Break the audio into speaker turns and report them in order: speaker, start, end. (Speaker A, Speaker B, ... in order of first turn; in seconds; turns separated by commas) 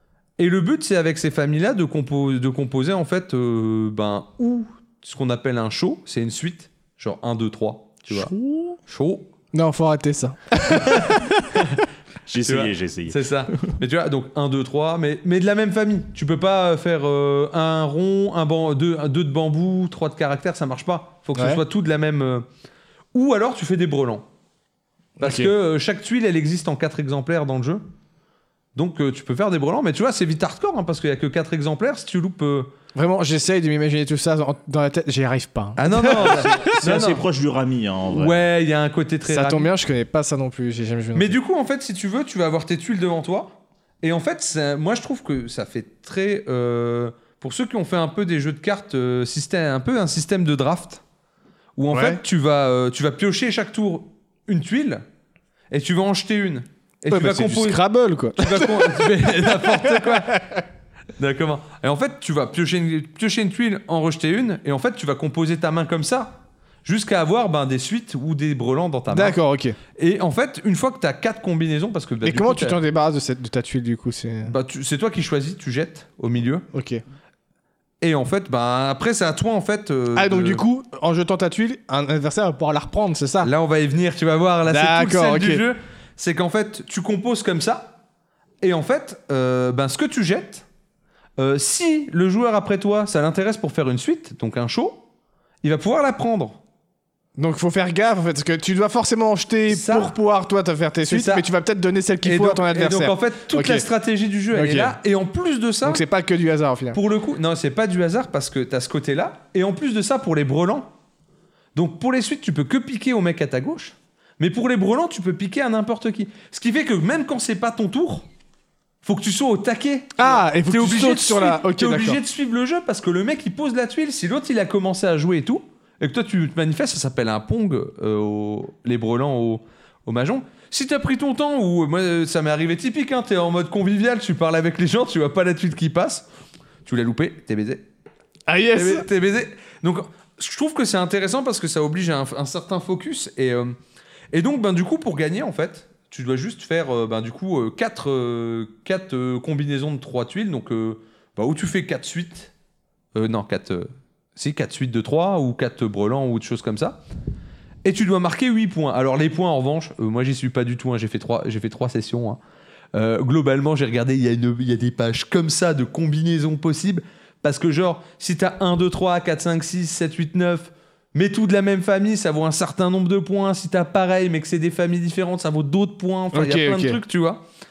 Speaker A: 0.4-8.3, Speaker B: 8.1-8.8, Speaker A: 8.9-9.3, Speaker C: 9.5-11.3, Speaker A: 10.7-11.8, Speaker B: 12.3-13.8, Speaker A: 12.4-22.5, Speaker C: 21.4-21.6, Speaker A: 23.1-24.2, Speaker C: 25.2-25.5, Speaker A: 25.2-27.9, Speaker A: 28.7-32.7, Speaker C: 32.9-36.8, Speaker A: 35.8-37.2, Speaker B: 36.2-38.4, Speaker A: 38.1-39.7, Speaker C: 39.3-41.4, Speaker A: 41.1-51.0, Speaker A: 51.8-55.0, Speaker C: 51.9-52.2, Speaker A: 55.7-57.8, Speaker C: 57.1-60.5, Speaker A: 58.4-60.6, Speaker A: 61.2-69.4, Speaker C: 69.1-69.8, Speaker A: 70.0-72.8, Speaker C: 72.2-74.5, Speaker A: 74.5-76.7, Speaker C: 76.7-77.0, Speaker A: 78.0-80.6, Speaker C: 80.1-83.5, Speaker A: 83.4-87.9, Speaker C: 84.7-85.6, Speaker A: 88.6-90.6, Speaker A: 91.4-95.0, Speaker A: 95.6-96.6, Speaker C: 97.4-103.8, Speaker A: 99.7-100.2, Speaker A: 101.1-101.5, Speaker A: 102.2-106.0, Speaker C: 104.5-105.0, Speaker C: 105.8-107.0, Speaker A: 106.9-110.9, Speaker A: 111.7-118.2, Speaker A: 119.0-136.2, Speaker C: 120.2-122.2, Speaker A: 136.8-137.8, Speaker C: 138.5-139.1, Speaker A: 138.7-143.7, Speaker A: 144.3-152.5, Speaker A: 153.1-157.0, Speaker A: 157.8-162.4, Speaker A: 162.9-177.4, Speaker C: 176.3-177.0